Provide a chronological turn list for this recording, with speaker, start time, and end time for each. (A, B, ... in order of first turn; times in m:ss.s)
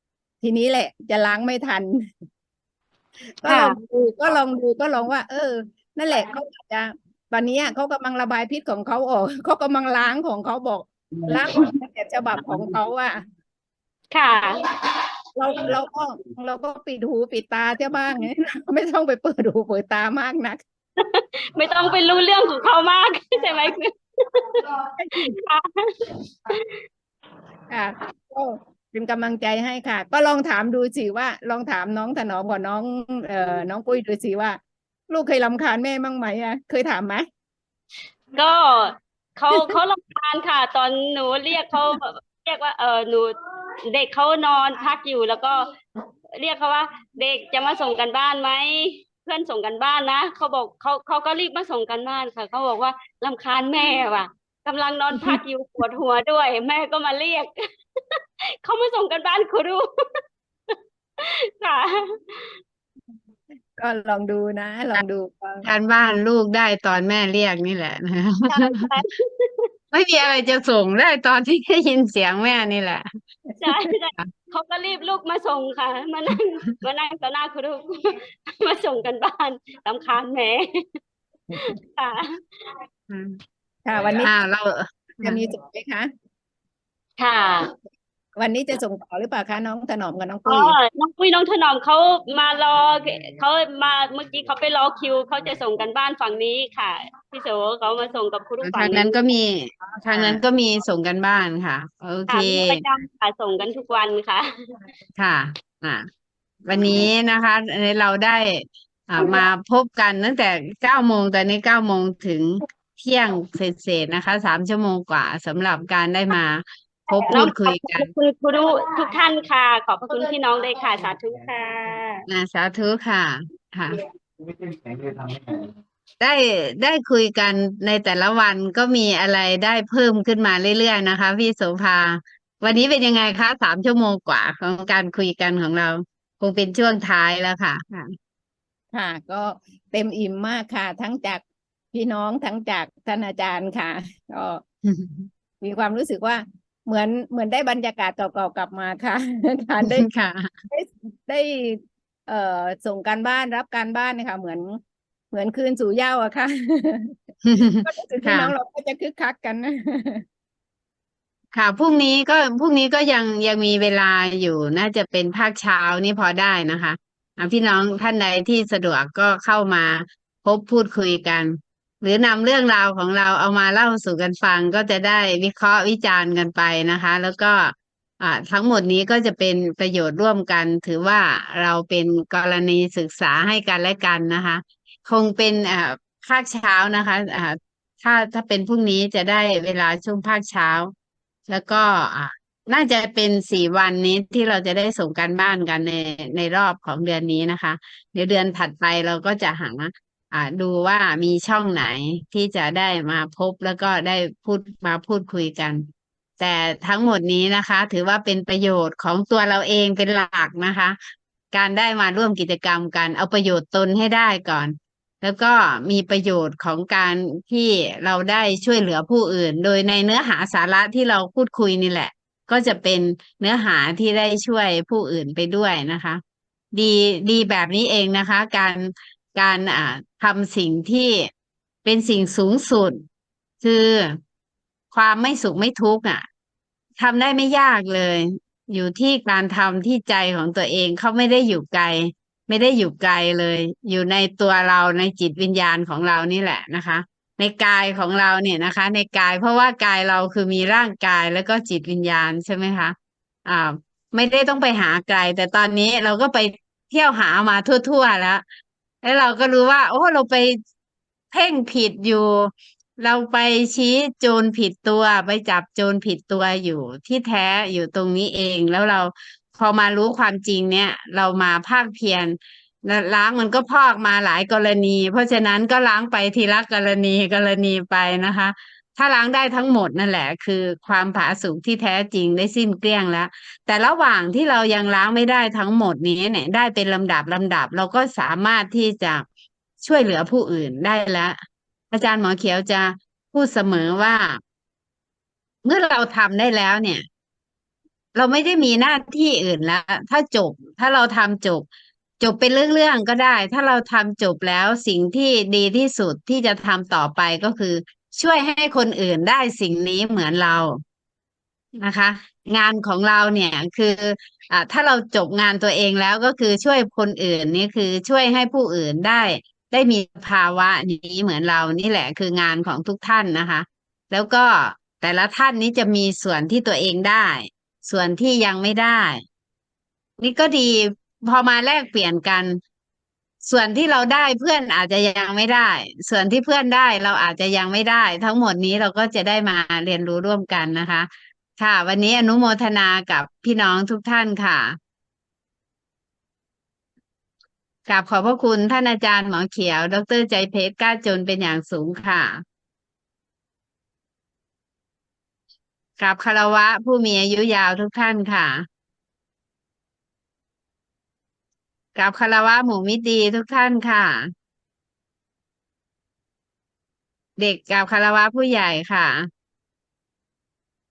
0:00.4-0:02.1 A
0:03.4-0:13.2 A
0:03.4-0:03.8 B
0:11.1-0:11.7 C
0:12.3-0:12.8 C
0:14.1-0:14.7 B
0:15.4-0:20.6 A
0:21.0-0:26.7 B
0:25.0-0:25.4 A
0:27.7-0:37.2 A
0:38.4-0:43.3 B
0:43.8-0:45.7 B
0:46.3-0:57.5 B
0:58.1-1:00.2 B
1:00.7-1:02.5 B
1:03.8-1:05.7 A
1:05.6-1:08.9 D
1:08.5-1:09.7 B
1:09.9-1:13.0 D
1:13.6-1:20.9 B
1:21.5-1:22.4 B
1:23.1-1:23.4 D
1:23.8-1:24.3 A
1:24.2-1:25.4 D
1:25.2-1:26.1 A
1:27.2-1:27.7 B
1:28.4-1:30.8 A
1:30.4-1:39.1 B
1:38.6-1:42.8 D
1:42.3-1:44.5 B
1:45.2-1:46.1 D
1:46.6-1:58.1 D
1:57.3-2:02.2 B
2:02.3-2:04.0 D
2:04.4-2:05.7 C
2:06.2-2:18.1 D
2:18.9-2:24.6 A
2:24.8-2:25.3 D
2:25.6-2:30.1 A
2:29.8-2:30.6 D
2:30.7-2:34.8 A
2:35.3-2:40.2 A
2:37.4-2:38.5 D
2:41.5-3:10.9 D
3:11.5-3:25.9 D
3:26.4-3:31.0 D
3:31.5-3:46.2 D
3:46.7-3:51.3 D
3:51.8-3:53.0 D
3:53.6-3:54.2 D
3:54.9-3:56.2 D
3:57.0-4:12.9 D
4:13.4-4:18.4 D
4:19.0-4:20.6 D
4:21.3-4:49.2 D
4:49.8-4:51.4 D
4:51.9-4:54.4 D
4:55.6-4:57.0 D
4:58.1-5:01.6 D
5:02.2-5:10.8 D
5:11.8-5:29.2 D
5:30.2-5:32.6 D
5:33.4-5:44.8 D
5:47.9-5:52.4 D
5:56.0-5:58.6 D
6:02.0-6:04.3 D
6:07.4-6:09.3 D